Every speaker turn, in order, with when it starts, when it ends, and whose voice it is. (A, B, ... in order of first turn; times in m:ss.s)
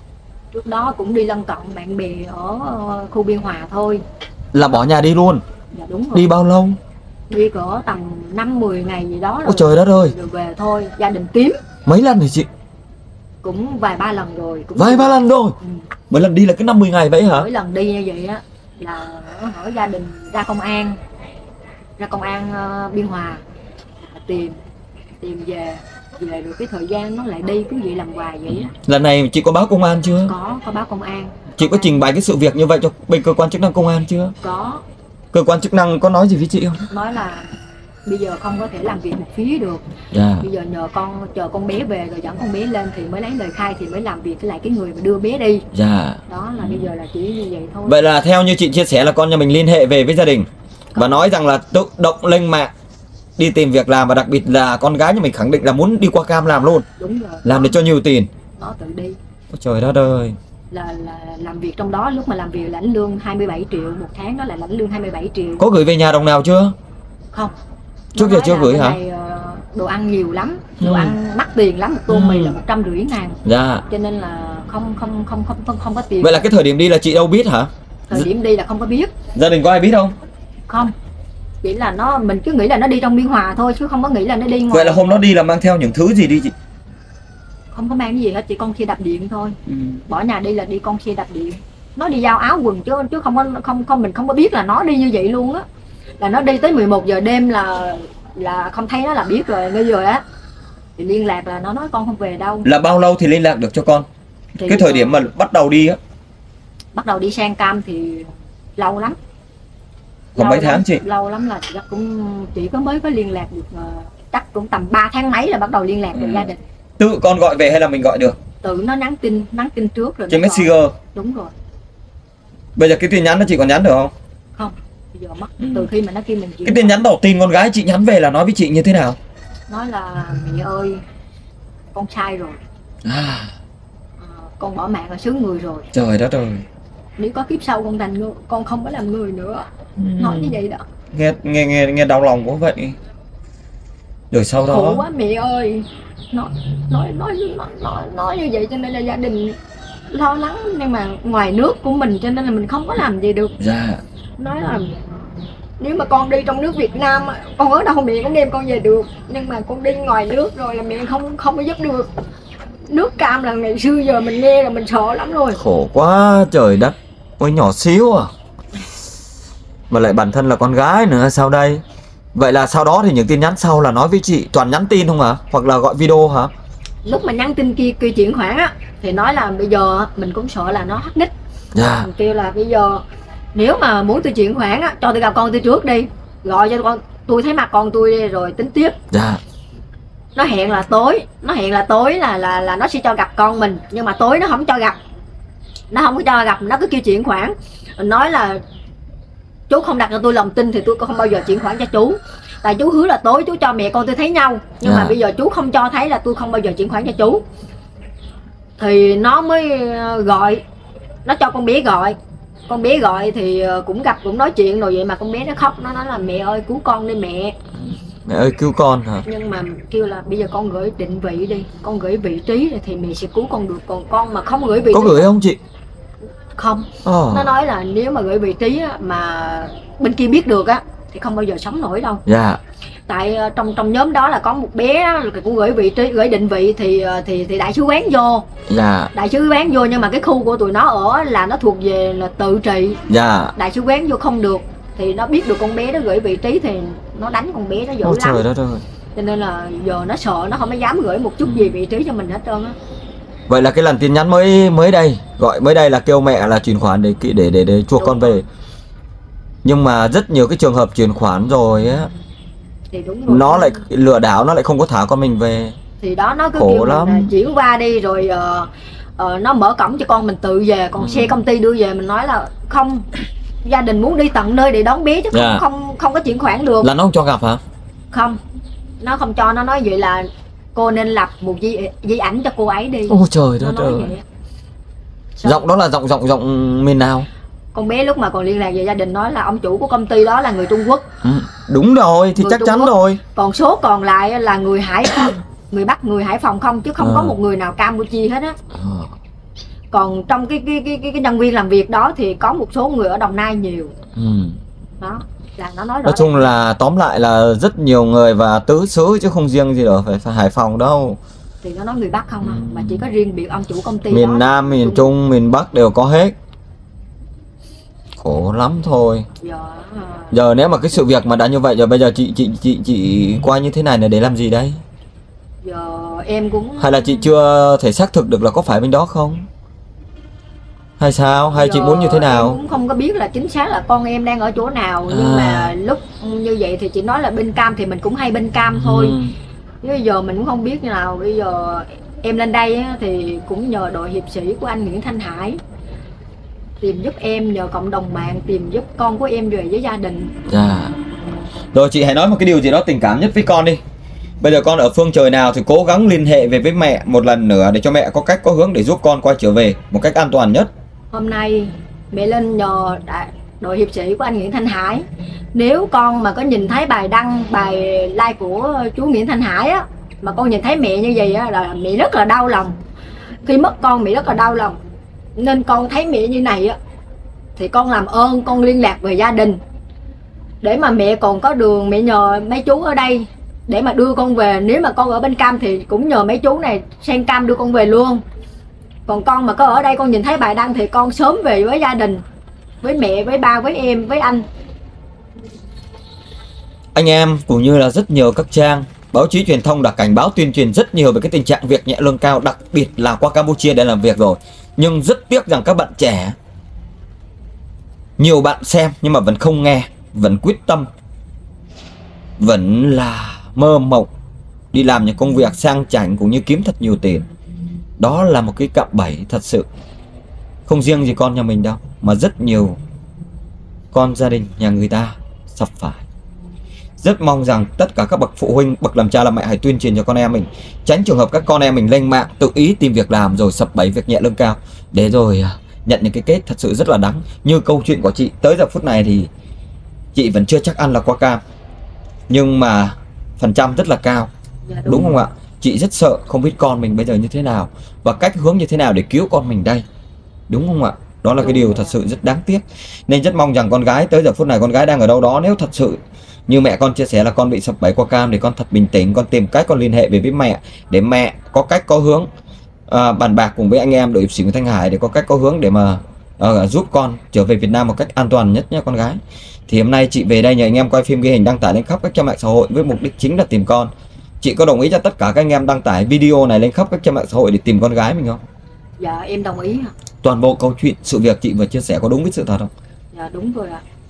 0:00.5-0:04.0 A
0:04.5-0:05.4 B
0:05.7-0:06.3 A
0:06.1-0:06.8 B
0:07.3-0:11.6 A
0:09.4-0:10.1 B
0:11.9-0:12.5 B
0:13.4-0:15.8 A
0:14.8-0:15.6 B
0:16.1-0:17.5 B
0:17.2-0:21.0 A
0:22.0-0:23.4 A
0:24.1-0:24.6 A
0:25.2-0:28.7 A
0:28.5-0:30.3 B
0:30.3-0:32.0 A
0:31.6-0:34.3 B
0:34.4-0:34.8 A
0:35.3-0:36.9 B
0:36.9-0:39.8 A
0:40.1-0:40.5 B
0:40.4-0:45.6 A
0:45.7-0:46.8 B
0:46.3-0:48.0 A
0:47.9-0:52.7 B
0:50.9-0:51.3 A
0:53.4-0:56.9 B
0:57.0-0:57.8 A
0:57.4-0:58.3 B
0:58.6-0:59.2 A
0:59.5-1:00.4 B
1:00.7-1:05.6 A
1:05.6-1:06.7 B
1:08.1-1:16.5 A
1:08.2-1:09.0 B
1:10.8-1:11.2 B
1:12.1-1:12.6 B
1:13.4-1:13.8 B
1:16.2-1:18.3 B
1:18.1-1:19.1 A
1:19.4-1:20.2 B
1:21.6-1:25.1 A
1:24.7-1:26.5 B
1:27.7-1:29.6 A
1:29.7-1:30.0 B
1:30.1-1:35.6 A
1:36.2-1:40.2 A
1:41.0-1:42.7 A
1:42.6-1:44.1 B
1:44.6-1:45.2 A
1:44.6-1:46.0 B
1:46.9-1:49.2 A
1:50.4-1:51.0 B
1:50.4-1:56.6 A
1:56.2-1:56.5 B
1:57.0-1:58.4 B
1:58.6-2:01.5 A
2:00.3-2:01.0 B
2:02.8-2:04.1 B
2:04.6-2:07.0 A
2:05.6-2:05.9 B
2:06.6-2:09.2 B
2:09.7-2:11.0 A
2:11.9-2:12.6 A
2:13.0-2:13.5 B
2:14.2-2:15.9 A
2:15.9-2:16.6 B
2:17.2-2:19.7 A
2:20.0-2:20.6 B
2:20.2-2:20.8 A
2:21.1-2:23.0 B
2:24.3-2:25.0 B
2:24.7-2:29.6 A
2:30.1-2:33.6 A
2:33.6-2:34.0 B
2:34.4-2:35.0 A
2:35.8-2:42.1 A
2:42.9-2:45.6 A
2:45.6-2:48.3 B
2:49.9-2:51.8 B
2:52.4-2:56.5 B
2:57.0-3:01.3 A
3:01.8-3:02.1 B
3:02.0-3:03.0 A
3:03.5-3:09.0 A
3:09.1-3:09.4 B
3:10.4-3:15.0 A
3:15.9-3:18.6 A
3:19.7-3:27.4 A
3:24.8-3:25.2 B
3:28.8-3:30.6 A
3:31.2-3:32.2 A
3:32.7-3:37.6 A
3:38.3-3:39.3 B
3:39.3-3:45.3 A
3:44.9-3:45.6 B
3:46.6-3:52.2 A
3:47.0-3:47.5 B
3:52.3-3:52.6 B
3:53.1-3:58.5 A
3:58.7-3:59.1 B
3:59.1-4:03.0 A
4:03.1-4:03.5 B
4:03.6-4:08.4 A
4:08.0-4:08.8 B
4:09.2-4:12.8 A
4:11.4-4:11.8 B
4:13.5-4:18.5 B
4:18.0-4:18.4 A
4:19.6-4:22.1 B
4:22.9-4:23.8 A
4:23.3-4:25.8 B
4:26.0-4:33.1 A
4:26.6-4:27.3 B
4:31.0-4:31.4 B
4:33.6-4:36.9 A
4:35.3-4:35.6 B
4:36.8-4:37.6 B
4:38.1-4:38.4 A
4:39.0-4:44.2 A
4:43.1-4:44.1 B
4:45.4-4:45.7 A
4:45.4-4:47.3 B
4:47.7-4:51.1 A
4:51.2-4:53.2 B
4:52.4-4:58.6 A
4:57.0-4:57.4 B
4:58.7-4:59.1 B
4:59.9-5:03.9 A
5:04.2-5:04.6 B
5:05.0-5:06.5 A
5:06.0-5:11.2 B
5:11.6-5:15.1 A
5:12.4-5:13.0 B
5:14.1-5:16.3 B
5:18.2-5:19.3 B
5:19.4-5:20.4 A
5:20.3-5:24.8 B
5:25.6-5:27.1 A
5:26.8-5:29.4 B
5:31.0-5:32.6 B
5:31.5-5:39.2 A
5:35.1-5:35.7 B
5:38.7-5:39.4 B
5:39.8-5:45.6 A
5:46.8-5:50.3 A
5:50.5-5:51.0 B
5:51.7-5:53.8 B
5:54.4-6:00.7 B
6:01.1-6:12.8 A
6:13.4-6:14.8 A
6:15.4-6:16.8 A
6:17.6-6:19.6 A
6:20.6-6:28.2 A
6:29.1-6:32.2 A
6:32.8-6:34.4 A
6:37.0-6:46.4 B
6:48.2-6:50.9 B
6:52.4-6:54.1 B
6:54.7-6:57.3 B
6:58.0-6:59.7 B
7:00.7-7:02.8 B
7:03.9-7:06.0 B
7:07.0-7:19.3 B
7:20.2-7:21.4 B
7:22.3-7:24.3 B
7:24.7-7:25.2 A
7:24.8-7:29.8 B
7:30.5-7:42.3 B
7:31.4-7:32.0 A
7:42.9-7:58.4 B
7:59.0-7:59.9 A
8:00.2-8:02.7 B
8:03.1-8:03.8 A